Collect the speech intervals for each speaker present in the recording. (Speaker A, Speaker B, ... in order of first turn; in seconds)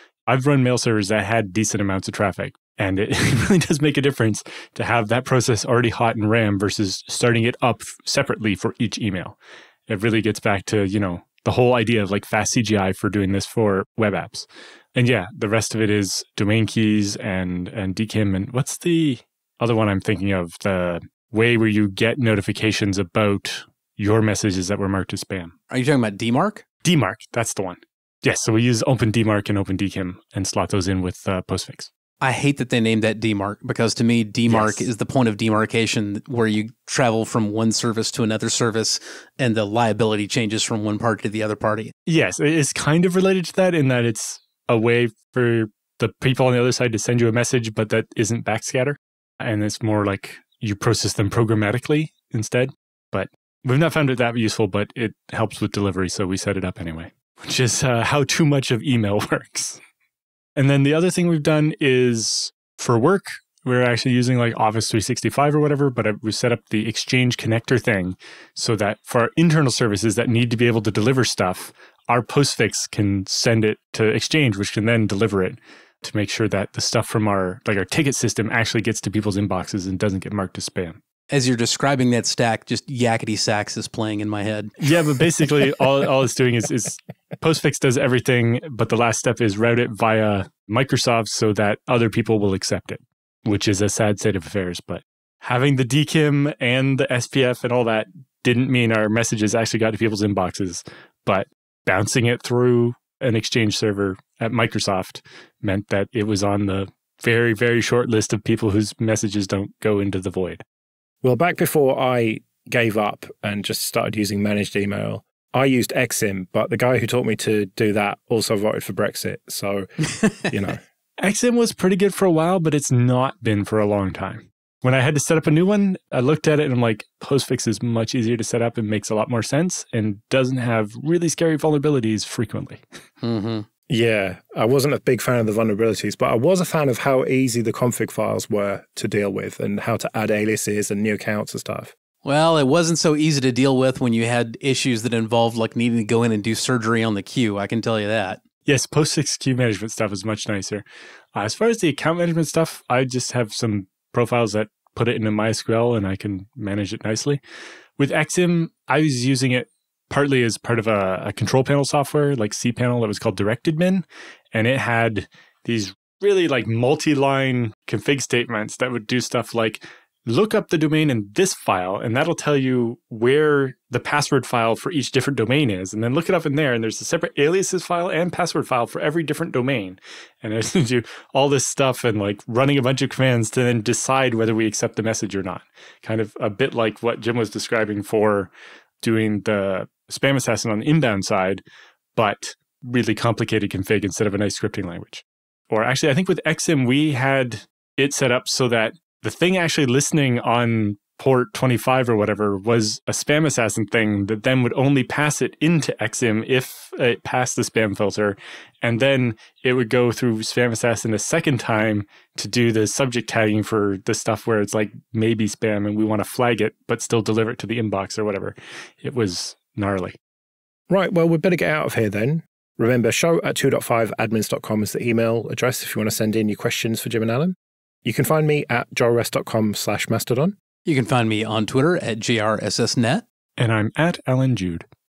Speaker A: 0.3-9.4, 9.9-25.5, 26.8-31.9, 34.5-34.9, 42.1-59.8, 60.6-81.0, 84.8-110.6, 121.2-132.8, 148.7-157.4, 158.0-188.5, 189.0-191.6, 192.2-220.2, 233.6-234.9
Speaker B: 25.7-26.6, 32.2-41.9, 81.3-84.7, 133.2-133.7, 142.2-148.4, 230.8-233.2
Speaker C: 111.2-119.9, 120.4-120.8, 133.9-141.9, 220.9-230.5